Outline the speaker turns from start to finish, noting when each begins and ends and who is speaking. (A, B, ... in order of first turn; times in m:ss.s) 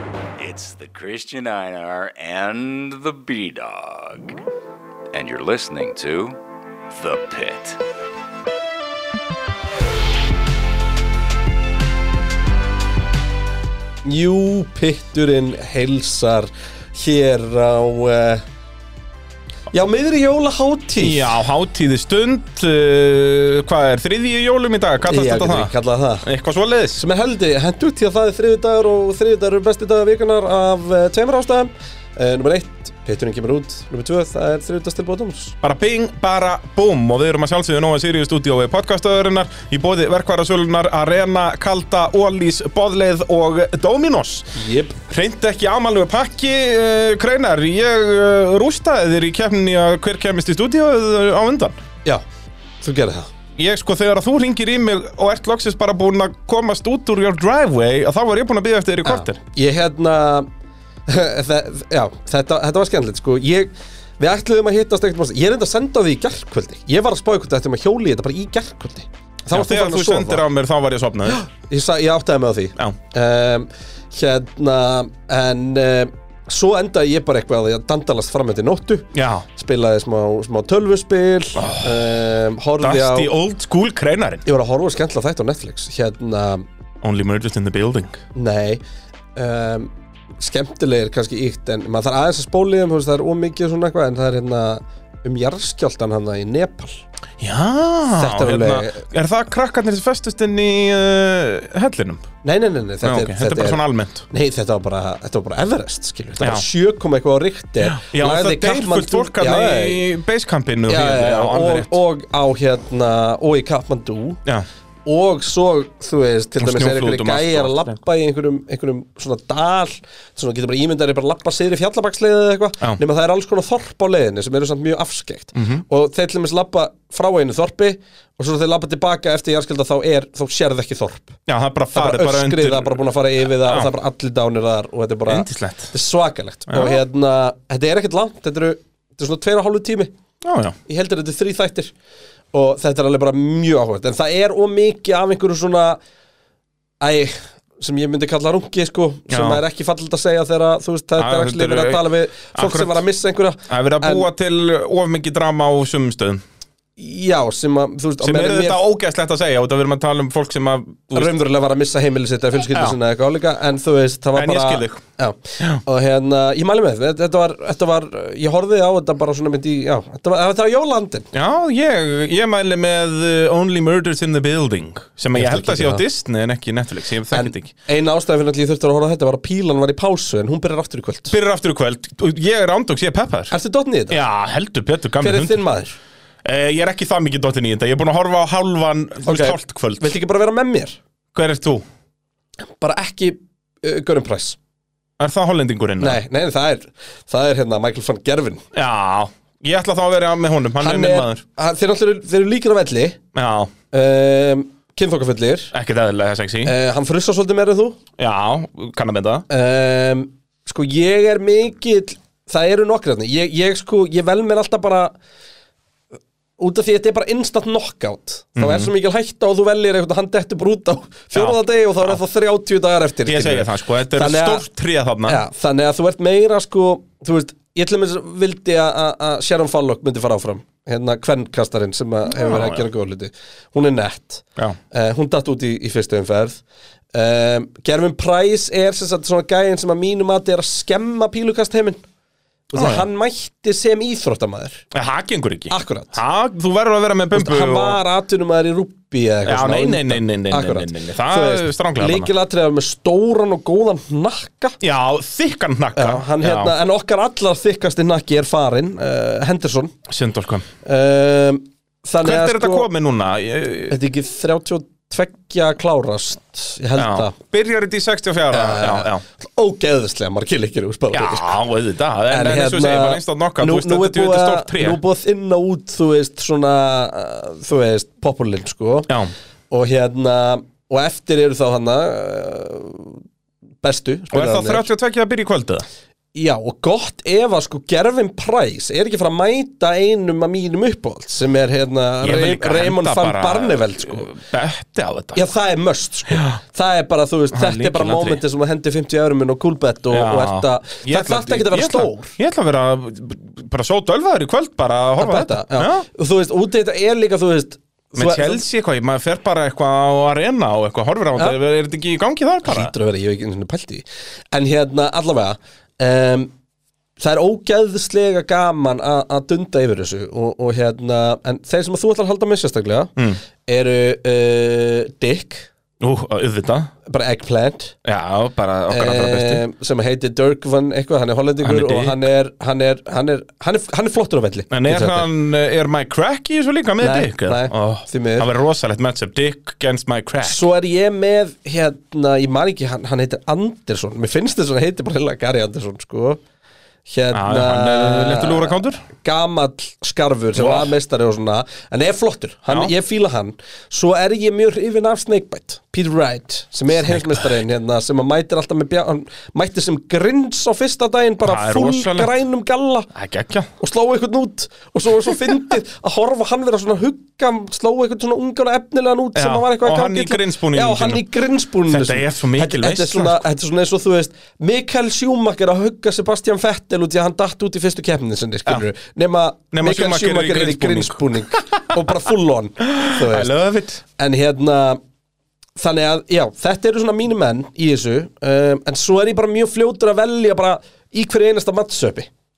0:00.4-0:04.4 A
0:05.1-0:06.4 A
0:06.9-0:07.8 A
0:14.0-0:18.4 B
0:19.7-0:21.3 B
0:21.0-0:27.0 C
0:25.0-0:26.2 B
0:27.0-0:35.6 B
0:35.6-0:51.8 C
0:44.6-0:45.0 B
0:52.8-0:53.3 B
0:53.6-0:59.4 C
0:59.0-1:00.5 B
1:01.1-1:10.4 B
1:09.5-1:11.4 C
1:11.3-1:23.3 B
1:19.1-1:19.5 C
1:21.6-1:22.1 C
1:22.8-1:24.4 C
1:24.4-1:26.7 B
1:27.0-1:28.2 C
1:28.3-1:28.8 B
1:29.4-1:37.0 B
1:37.4-1:42.3 C
1:38.1-1:39.0 B
1:42.4-1:50.0 B
1:43.0-1:44.2 C
1:46.4-1:46.6 C
1:47.8-1:52.0 C
1:50.9-1:54.4 B
1:55.1-2:11.4 B
1:56.6-1:58.0 C
2:05.6-2:05.8 C
2:11.5-2:13.0 C
2:11.9-2:20.1 B
2:13.6-2:13.9 C
2:15.3-2:15.9 C
2:16.7-2:17.0 C
2:20.4-2:20.8 C
2:20.9-2:21.9 B
2:22.5-2:26.0 B
2:27.0-2:34.3 B
2:29.3-2:29.6 C
2:31.2-2:33.0 C
2:33.7-2:36.4 C
2:37.0-2:38.8 B
2:38.2-2:41.3 C
2:41.1-2:51.3 B
2:42.7-2:43.0 C
2:44.4-2:45.0 C
2:51.3-2:57.7 C
2:55.3-2:56.0 B
2:57.3-3:01.4 B
3:01.3-3:03.5 C
3:03.5-3:04.2 B
3:04.1-3:05.6 C
3:05.2-3:06.0 B
3:06.4-3:10.2 C
3:09.2-3:11.0 B
3:11.3-3:11.8 C
3:12.8-3:14.6 B
3:15.2-3:16.2 C
3:16.0-3:18.6 B
3:18.7-3:21.4 C
3:20.8-3:23.2 B
3:23.3-3:23.7 C
3:23.9-3:25.7 B
3:25.7-3:26.7 C
3:26.6-3:28.0 B
3:28.2-3:29.5 C
3:29.5-3:35.2 B
3:36.6-3:44.7 B
3:38.6-3:38.9 C
3:41.3-3:42.2 C
3:43.3-3:45.4 C
3:45.3-3:56.6 B
3:52.3-3:52.9 C
3:57.1-4:02.0 B
4:02.7-4:04.8 B
4:02.8-4:03.0 C
4:04.9-4:08.0 C
4:05.7-4:06.2 B
4:07.3-4:14.8 B
4:09.4-4:12.3 C
4:14.8-4:16.7 C
4:16.0-4:20.0 B
4:20.1-4:20.7 C
4:20.8-4:22.9 B
4:22.2-4:24.0 C
4:23.9-4:27.4 B
4:27.0-4:29.2 C
4:28.5-4:31.5 B
4:31.1-4:35.0 C
4:32.3-4:39.1 B
4:39.1-4:39.3 C
4:39.7-4:43.2 B
4:43.8-4:44.9 B
4:44.3-4:45.8 C
4:46.4-4:54.3 B
4:52.2-4:55.5 C
4:55.3-5:02.4 B
4:56.3-4:56.6 C
4:57.5-4:58.4 C
5:00.1-5:06.1 C
5:05.2-5:08.6 B
5:08.2-5:12.9 C
5:12.6-5:16.5 B
5:17.2-5:23.1 B
5:23.6-5:25.7 B
5:26.0-5:26.9 C
5:27.1-5:28.0 B
5:28.0-5:29.6 C
5:28.9-5:35.3 B
5:31.6-5:32.2 C
5:34.7-5:40.6 C
5:37.0-5:38.5 B
5:40.4-5:46.4 B
5:47.1-6:03.1 B
5:47.3-5:49.0 C
5:50.6-5:50.9 C
5:57.0-5:57.5 C
6:01.4-6:02.4 C
6:03.1-6:03.7 C
6:03.8-6:23.5 B
6:09.4-6:11.2 C
6:11.9-6:13.4 C
6:19.7-6:21.9 C
6:22.9-6:24.0 C
6:24.2-6:25.0 B
6:25.8-6:32.3 B